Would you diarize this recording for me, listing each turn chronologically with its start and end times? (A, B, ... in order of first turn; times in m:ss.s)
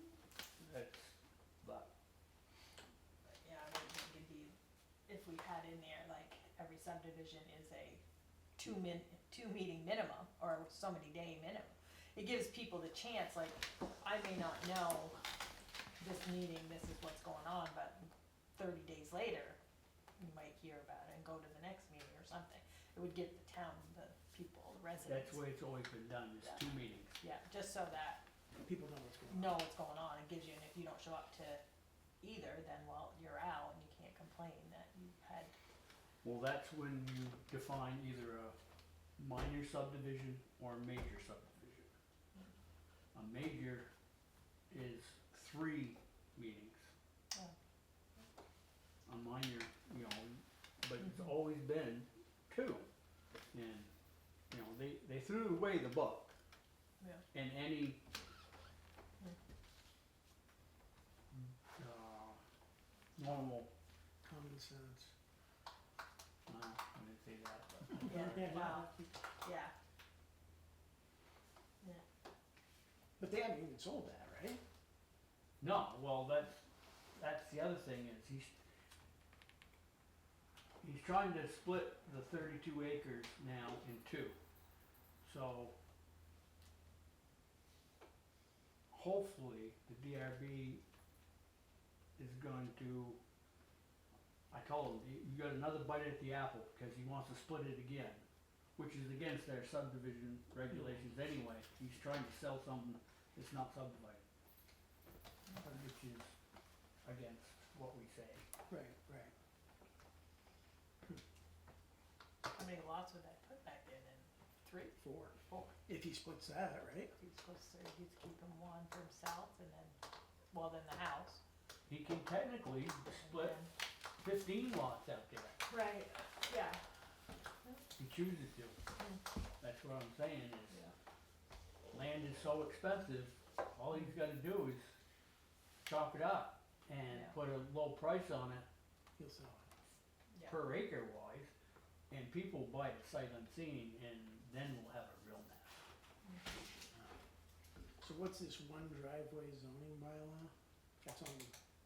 0:00.6-0:01.9 A
0:03.3-0:04.5 B
0:05.1-0:08.0 B
0:08.6-0:15.2 B
0:16.0-0:19.6 B
0:20.2-0:25.4 B
0:25.1-0:27.2 A
0:27.2-0:28.2 B
0:28.6-0:29.6 C
0:29.3-0:31.6 B
0:32.2-0:35.5 B
0:36.2-0:38.6 A
0:39.2-0:41.9 A
0:43.1-0:43.9 A
0:44.7-0:46.9 A
0:49.1-0:52.9 A
0:51.0-0:51.3 B
0:53.5-0:53.9 A
0:54.5-0:56.3 A
0:57.3-0:58.0 A
1:01.3-1:02.4 A
1:03.2-1:03.7 A
1:04.2-1:05.1 C
1:06.5-1:08.7 A
1:08.0-1:09.7 B
1:08.4-1:09.0 C
1:13.2-1:14.6 C
1:15.6-1:18.5 A
1:20.8-1:24.4 A
1:25.2-1:25.7 A
1:28.9-1:30.8 A
1:32.2-1:33.2 A
1:34.5-1:38.2 A
1:38.8-1:44.2 A
1:45.6-1:46.3 A
1:47.0-1:48.4 A
1:48.7-1:49.3 C
1:52.5-1:55.7 B
1:55.0-1:57.1 C
1:57.2-2:00.0 B
2:00.5-2:01.4 B
2:01.9-2:03.6 A
2:03.2-2:03.7 B
2:04.2-2:05.6 A
2:05.7-2:06.8 B
2:08.0-2:08.8 A
2:09.0-2:09.2 B
2:09.6-2:10.9 A
2:11.9-2:14.8 A
2:15.9-2:18.6 A
2:17.1-2:17.4 B
2:19.2-2:19.7 C
2:20.3-2:20.6 B
2:20.4-2:21.5 A
2:22.1-2:25.8 A
2:26.2-2:26.5 B
2:28.0-2:31.5 C